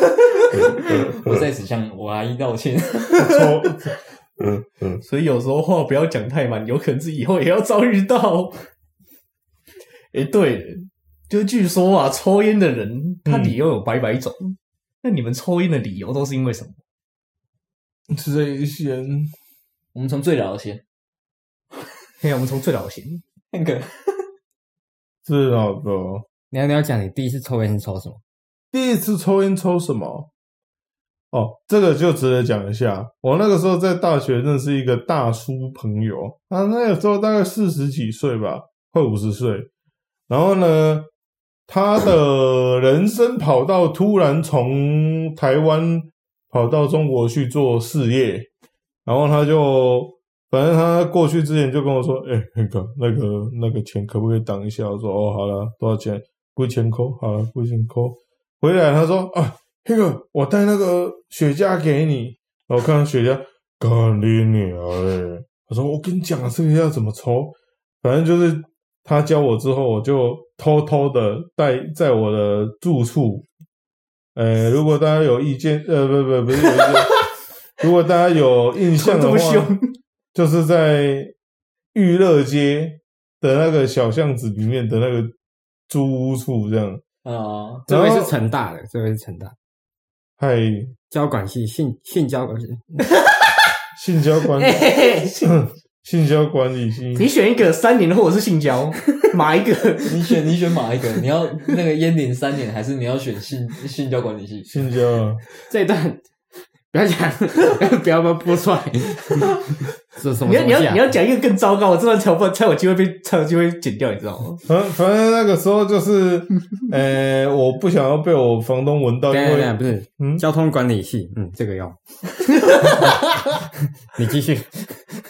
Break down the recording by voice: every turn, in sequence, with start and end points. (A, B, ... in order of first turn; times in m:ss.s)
0:00.4-0:03.4 A
0:01.1-0:01.4 B
0:03.2-0:05.0 B
0:05.0-0:08.7 C
0:10.1-0:16.8 C
0:13.3-0:13.5 B
0:18.1-0:19.3 B
0:19.9-0:20.8 A
0:22.2-0:23.2 C
0:23.5-0:24.3 A
0:25.2-0:26.2 B
0:26.5-0:28.2 D
0:28.7-0:30.3 B
0:31.3-0:39.7 B
0:40.3-0:41.1 B
0:41.7-0:48.5 B
0:49.0-1:13.5 B
1:14.4-1:19.7 B
1:19.0-1:19.9 C
1:20.3-1:21.3 B
1:21.9-1:25.3 B
1:25.9-1:27.0 B
1:27.2-1:27.9 A
1:27.9-1:29.6 D
1:27.9-1:28.3 B
1:30.4-1:30.9 B
1:31.1-1:33.1 D
1:34.0-1:37.3 B
1:34.6-1:35.4 C
1:37.2-1:40.1 C
1:40.1-1:44.7 A
1:44.7-1:45.4 B
1:45.7-1:46.2 D
1:46.9-1:51.1 D
1:50.4-1:54.6 C
1:54.7-2:00.4 B
1:59.3-2:02.0 D
2:04.1-2:05.0 D